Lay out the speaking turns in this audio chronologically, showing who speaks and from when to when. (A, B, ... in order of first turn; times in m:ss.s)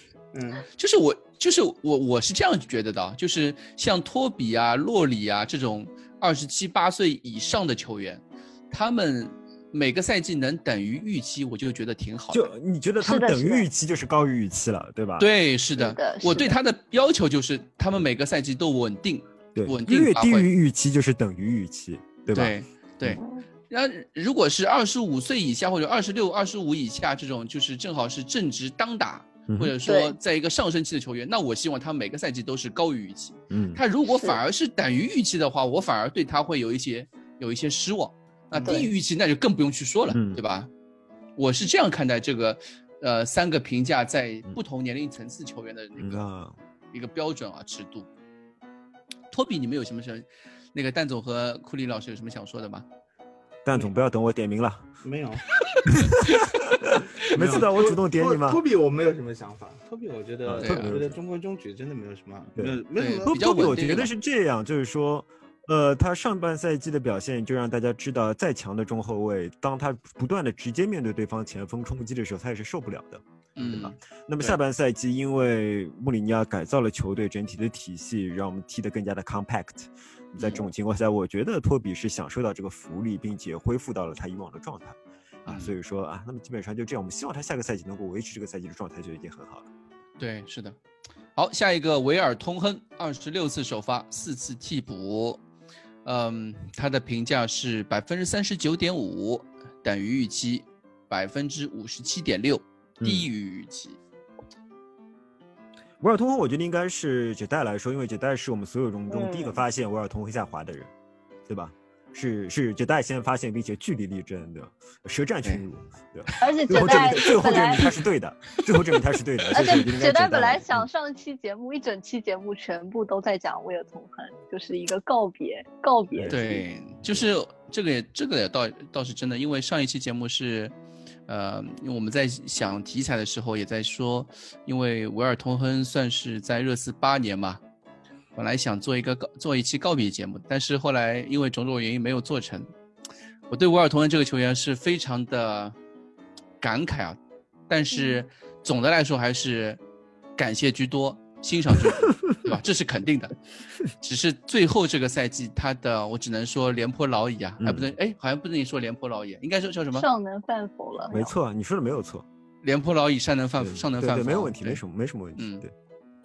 0:00.3-0:00.6 A
0:00.8-0:12.5 B
0:12.3-0:15.3 C
0:13.0-0:13.7 D
0:15.2-0:20.5 B
0:15.8-0:16.6 D
0:19.5-0:23.2 C
0:22.3-0:40.7 B
0:23.2-0:23.4 D
0:29.5-0:29.7 C
0:29.8-0:30.1 D
0:33.5-0:33.8 C
0:38.6-0:38.9 D
0:40.1-0:40.4 C
0:41.4-0:46.2 B
0:46.0-0:46.6 C
0:46.9-0:48.1 B
0:49.3-0:52.8 B
0:53.6-0:54.8 C
0:55.0-0:55.6 A
0:55.8-0:58.6 C
0:56.1-0:56.4 B
0:57.3-0:57.6 B
0:57.3-1:03.4 A
1:00.4-1:01.1 C
1:00.6-1:01.0 B
1:02.6-1:29.7 C
1:03.0-1:04.1 B
1:13.6-1:14.6 B
1:20.4-1:20.6 B
1:25.4-1:25.7 B
1:30.2-1:30.8 B
1:31.3-1:35.4 B
1:36.0-1:44.0 B
1:43.0-1:43.3 C
1:46.0-1:50.9 C
1:49.1-1:49.6 D
1:51.5-2:00.9 C
1:56.4-1:58.0 D
1:59.5-2:06.6 D
2:06.1-2:06.4 C
2:06.3-2:10.7 B
2:11.3-2:17.6 B
2:18.4-2:22.7 B
2:23.5-2:25.7 B
2:26.6-2:27.2 B
2:27.7-2:29.8 B
2:27.9-2:28.2 D
2:30.4-2:33.3 B
2:34.0-2:40.0 B
2:37.6-2:37.9 C
2:39.9-2:41.3 D
2:41.1-2:42.2 C
2:42.6-2:44.8 B
2:43.6-2:45.7 C
2:45.4-2:45.6 B